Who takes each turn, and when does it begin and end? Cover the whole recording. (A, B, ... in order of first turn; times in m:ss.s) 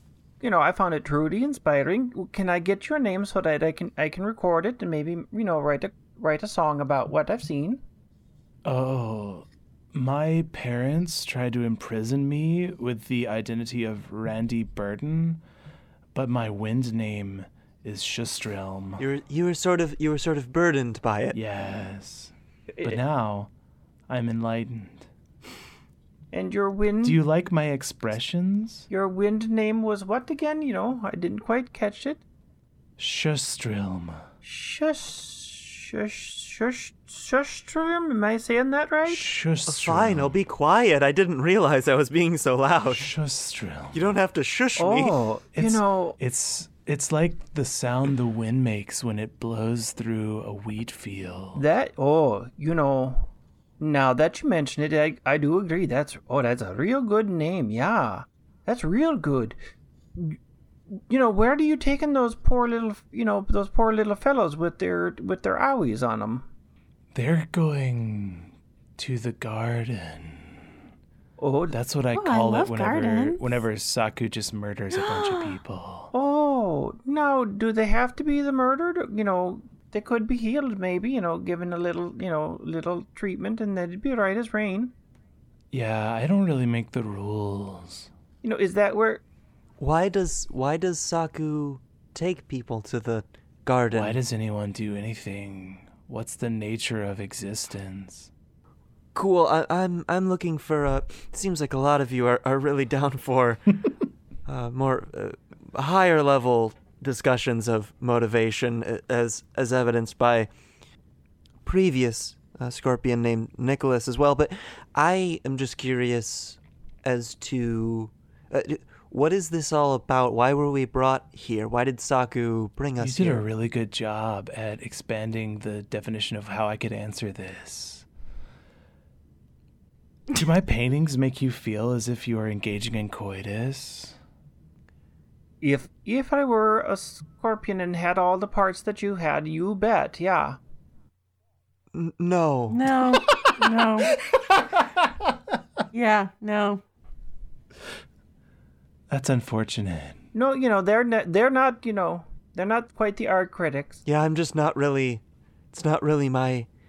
0:00.4-0:07.8 A
0:08.6-0:15.4 B
0:16.1-0:19.0 B
0:19.0-0:21.4 C
0:21.3-0:23.5 B
0:22.7-0:23.0 A
0:24.1-0:25.1 B
0:26.3-0:27.2 A
0:27.0-0:28.9 B
0:28.9-0:32.2 A
0:33.0-0:34.2 B
0:34.4-0:39.3 A
0:39.0-0:40.4 B
0:39.7-0:43.1 C
0:42.9-0:44.2 B
0:43.9-0:45.2 C
0:44.8-0:46.2 A
0:45.6-0:51.6 B
0:51.6-0:53.3 A
0:53.8-0:59.6 A
1:00.9-1:06.5 A
1:07.1-1:10.7 B
1:11.4-1:11.8 A
1:11.7-1:16.1 B
1:12.1-1:13.6 D
1:15.1-1:15.6 D
1:16.1-1:24.9 A
1:25.7-1:28.1 B
1:28.4-1:29.2 A
1:29.8-1:34.2 C
1:33.9-1:38.3 B
1:39.2-1:43.8 C
1:44.5-1:50.5 C
1:51.6-2:03.4 C
2:03.0-2:08.1 B
2:10.3-2:14.2 B
2:15.6-2:20.6 A
2:21.9-2:23.0 C
2:22.7-2:24.2 D
2:24.1-2:25.3 B
2:25.9-2:26.8 D
2:29.1-2:30.2 B
2:30.3-2:34.0 A
2:34.0-2:36.7 C